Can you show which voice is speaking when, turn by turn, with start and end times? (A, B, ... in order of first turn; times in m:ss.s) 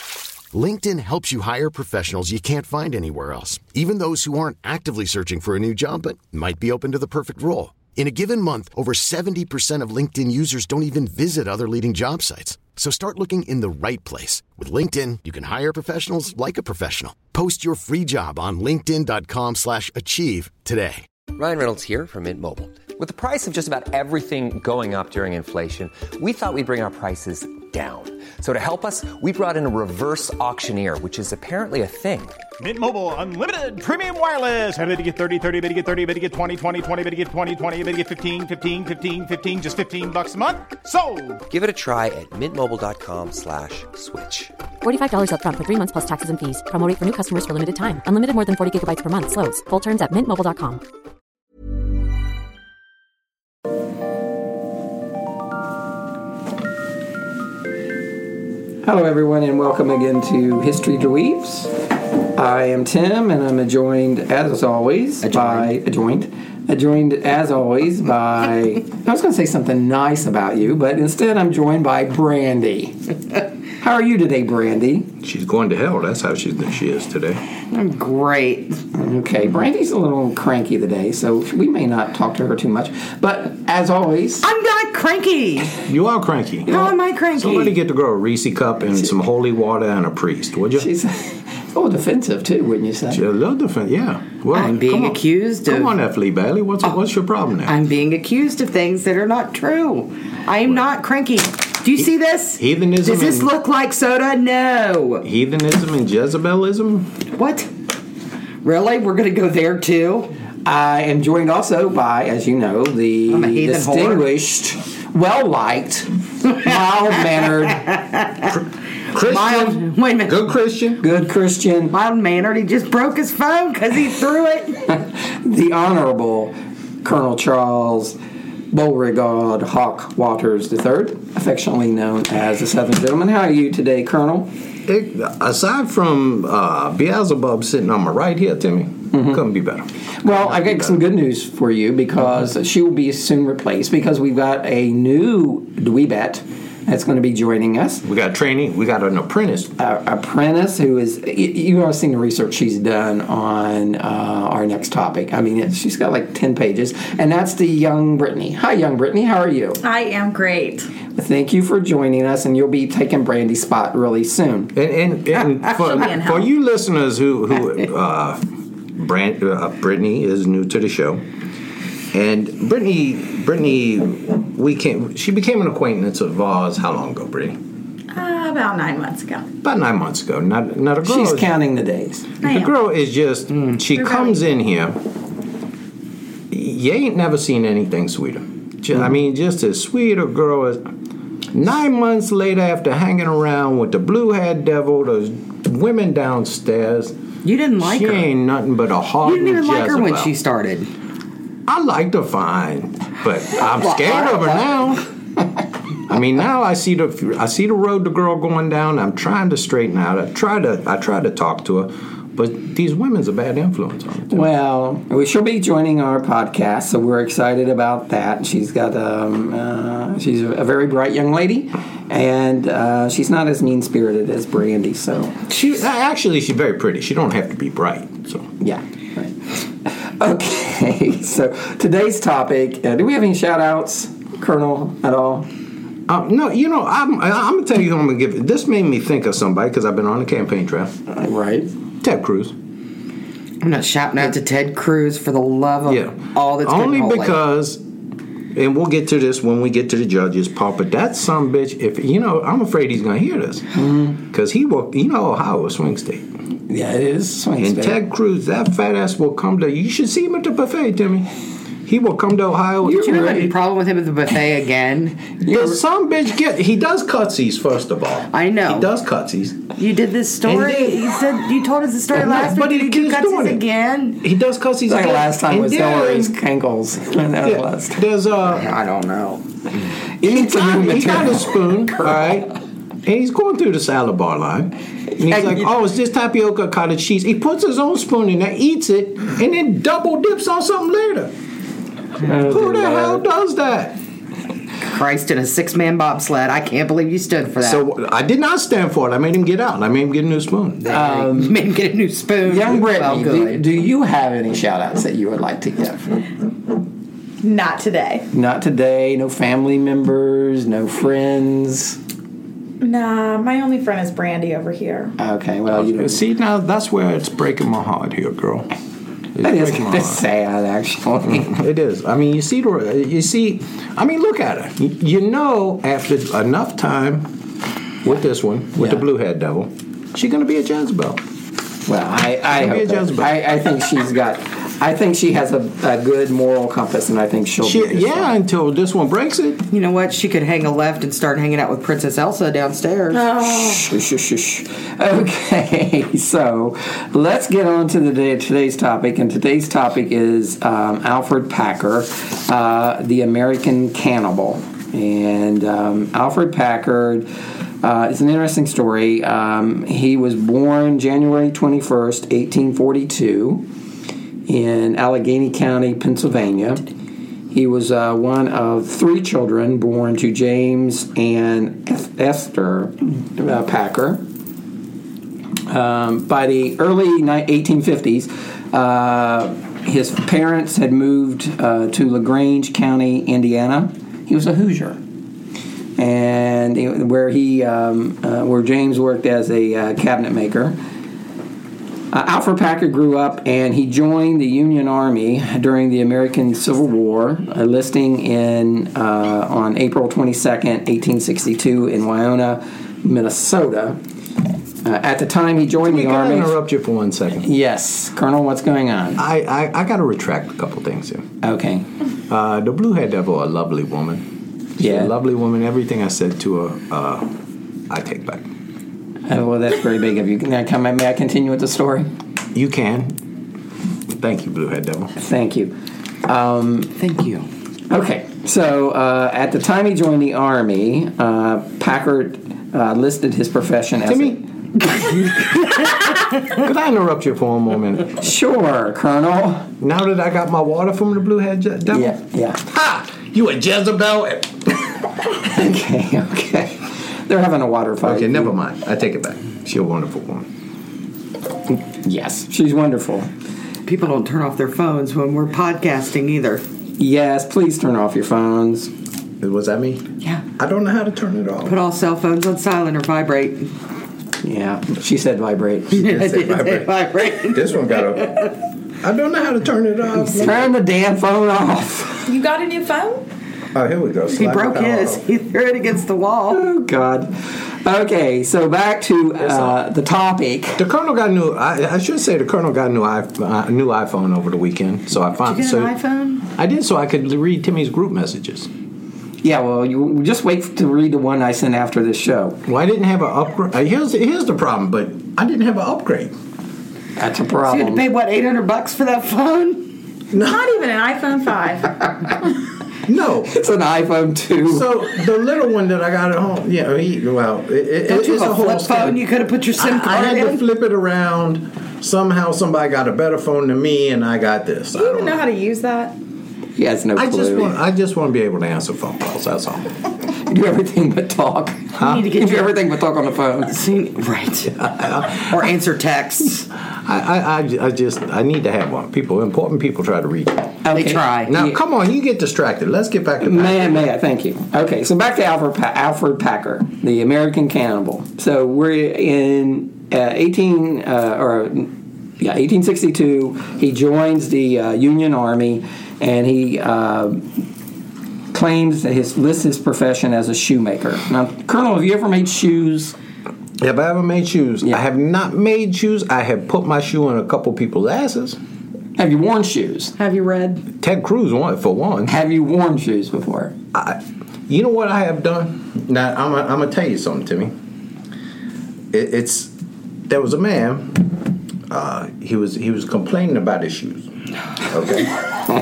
0:00.5-0:21.1 A
0:21.3-0:32.4 B
0:32.6-0:41.4 C
0:41.5-0:44.5 B
0:44.8-0:50.8 D
0:58.8-1:01.7 E
1:02.3-1:13.0 E
1:05.2-1:05.7 F
1:13.8-1:15.1 E
1:15.2-1:17.4 G
1:17.7-1:18.8 F
1:18.9-1:24.4 E
1:24.4-1:25.8 F
1:25.9-1:26.8 G
1:26.7-1:27.8 F
1:27.3-1:30.9 G
1:30.8-1:33.2 E
1:33.1-1:37.7 G
1:34.5-1:35.9 F
1:37.6-1:45.2 F
1:42.6-1:43.5 G
1:45.2-1:47.1 G
1:47.4-1:47.7 F
1:48.6-1:50.3 F
1:50.6-1:57.9 E
1:53.3-1:54.2 F
1:57.8-1:58.4 F
1:58.5-2:01.0 G
1:59.2-2:00.4 F
2:01.0-2:01.9 E
2:01.9-2:04.8 F
2:04.9-2:08.2 E
2:08.7-2:14.5 E
2:14.9-2:21.0 G
2:19.1-2:19.4 E
2:20.2-2:28.0 E
2:28.0-2:29.7 G
2:29.8-2:39.8 E
2:39.8-2:40.9 H
2:41.2-2:44.7 E
2:44.7-2:48.4 G
2:45.8-2:46.5 H
2:49.0-2:51.2 G
2:52.1-2:57.6 G
2:58.1-2:59.5 H
2:59.6-3:01.5 G
3:01.0-3:02.3 E
3:02.4-3:02.7 H
3:02.4-3:05.0 G
3:03.9-3:04.4 H
3:06.5-3:10.8 G
3:11.5-3:17.1 G
3:17.4-3:18.3 F
3:17.8-3:20.3 G
3:19.2-3:20.9 F
3:21.7-3:25.0 G
3:23.5-3:24.8 F
3:26.1-3:34.5 G
3:34.3-3:45.3 E
3:45.5-3:48.5 G
3:48.6-3:49.3 E
3:49.8-3:55.5 E
3:56.1-4:00.9 G
4:01.1-4:01.7 E
4:02.0-4:02.5 G
4:03.6-4:07.4 F
4:05.9-4:07.8 G
4:08.5-4:13.7 G
4:13.8-4:14.2 E
4:14.3-4:16.2 G
4:16.7-4:18.0 E
4:17.6-4:21.3 G
4:21.8-4:23.5 G
4:22.8-4:25.3 F
4:22.8-4:23.1 E
4:25.4-4:25.8 E
4:25.5-4:29.7 G
4:28.3-4:28.9 F
4:29.8-4:34.2 F
4:30.4-4:31.1 G
4:32.1-4:33.6 G
4:34.2-4:36.4 G
4:34.9-4:38.0 E
4:37.4-4:38.7 G
4:38.4-4:39.4 F
4:40.2-4:41.6 E
4:40.2-4:42.5 G
4:43.0-4:51.3 G
4:45.2-4:45.6 E
4:52.2-4:53.2 E
4:52.3-4:54.0 G
4:54.8-4:57.8 F
4:57.6-5:00.8 G
5:00.8-5:03.6 F
5:00.9-5:01.6 E
5:02.4-5:06.1 E
5:07.4-5:08.2 H
5:08.3-5:12.0 E
5:12.8-5:15.1 H
5:15.2-5:16.2 E
5:15.7-5:18.7 G
5:19.4-5:20.2 G
5:19.4-5:21.5 E
5:21.2-5:27.3 G
5:28.0-5:31.2 G
5:31.8-5:38.4 E
5:32.4-5:33.3 G
5:37.6-5:39.6 G
5:39.7-5:43.2 F
5:43.1-5:43.8 H
5:43.4-5:57.3 E
5:57.8-6:03.6 E
6:04.5-6:06.8 E
6:07.5-6:14.2 E
6:15.7-6:25.0 E
6:26.0-6:30.8 E
6:32.1-6:44.0 E
6:44.8-6:46.6 E
6:45.9-6:47.5 G
6:47.4-6:49.2 E
6:49.2-6:51.2 G
6:51.4-6:51.8 E
6:52.3-6:54.2 G
6:54.8-6:57.3 G
6:54.8-6:55.1 E
6:57.9-6:58.5 G
6:59.3-7:02.1 E
7:02.5-7:03.2 G
7:04.1-7:05.1 G
7:05.2-7:05.7 E
7:06.2-7:06.9 E
7:07.0-7:07.5 F
7:07.9-7:14.4 E
7:14.1-7:14.4 G
7:15.0-7:16.0 F
7:15.9-7:18.2 G
7:18.2-7:19.7 E
7:19.8-7:25.0 G
7:21.9-7:22.6 E
7:25.5-7:28.5 E
7:28.0-7:30.5 G
7:32.0-7:33.3 E
7:33.8-7:36.6 F
7:37.0-7:38.9 E
7:39.4-7:40.0 G
7:40.6-7:41.7 G
7:41.6-7:43.7 F
7:44.4-7:46.0 E
7:45.9-7:46.9 G
7:45.9-7:48.5 F
7:47.4-7:50.7 G
7:50.3-7:52.3 E
7:52.2-7:53.2 H
7:53.7-7:55.2 G
7:54.3-7:56.6 F
7:56.5-7:57.3 E
7:57.8-8:00.8 E
7:59.4-7:59.8 G
8:00.8-8:05.9 G
8:05.4-8:06.4 F
8:06.5-8:08.7 G
8:09.4-8:12.6 E
8:12.7-8:16.3 G
8:17.2-8:18.0 E
8:17.6-8:19.9 F
8:20.3-8:20.6 G
8:20.3-8:22.3 H
8:23.0-8:23.5 G
8:23.5-8:24.9 E
8:24.7-8:29.2 G
8:28.1-8:30.6 F
8:29.8-8:35.4 G
8:34.9-8:36.1 H
8:36.8-8:37.7 E
8:37.2-8:39.9 G
8:40.4-8:43.8 E
8:42.0-8:42.3 G
8:42.0-8:42.7 F
8:43.7-8:44.7 F
8:44.7-8:45.5 G
8:45.3-8:46.6 F
8:47.0-8:50.8 G
8:50.8-8:51.8 E
8:50.9-8:51.5 F
8:51.5-8:54.0 G
8:53.4-9:07.4 E
9:08.5-9:13.1 E
9:13.8-9:18.6 G
9:19.2-9:20.2 E
9:20.2-9:20.8 F
9:21.0-9:22.3 G
9:22.3-9:23.7 E
9:23.9-9:27.7 G
9:29.1-9:29.7 G
9:30.3-9:31.3 G
9:31.9-9:34.3 G
9:34.8-9:35.4 G